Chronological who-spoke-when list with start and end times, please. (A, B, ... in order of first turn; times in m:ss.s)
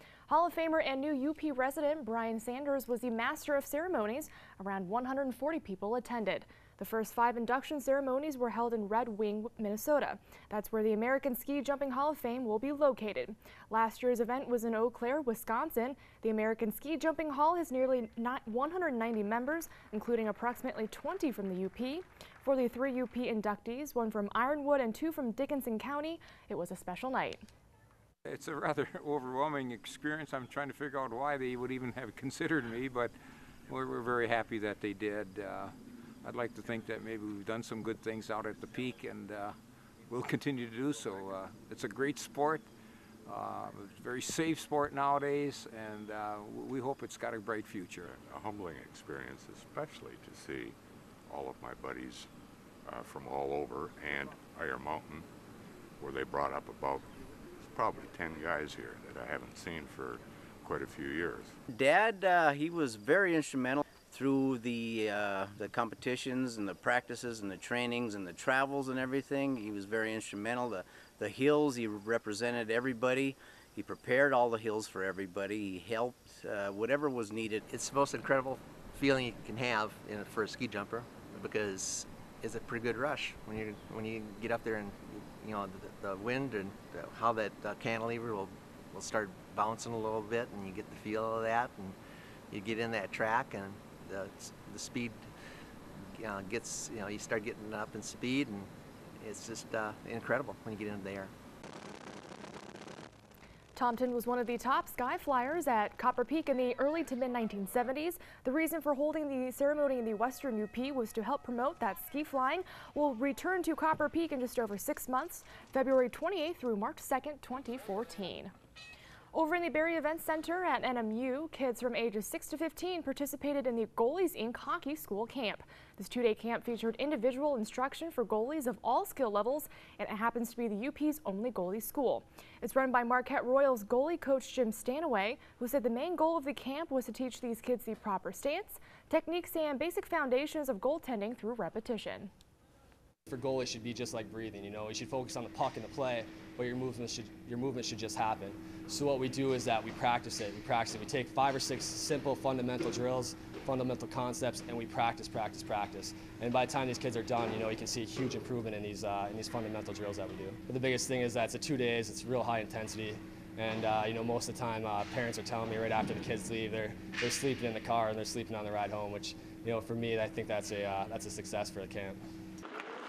0:00.3-0:27.4 A
0:28.3-0:33.1 B
0:33.7-0:39.6 B
0:40.1-0:42.7 B
0:43.3-0:48.1 B
0:48.1-0:52.3 C
0:52.8-0:55.3 C
0:56.0-1:01.6 C
1:01.7-1:17.6 D
1:17.7-1:32.0 E
1:32.5-1:35.3 E
1:36.0-1:41.3 E
1:43.8-1:58.5 A
1:59.3-2:22.3 A
2:23.3-2:52.2 F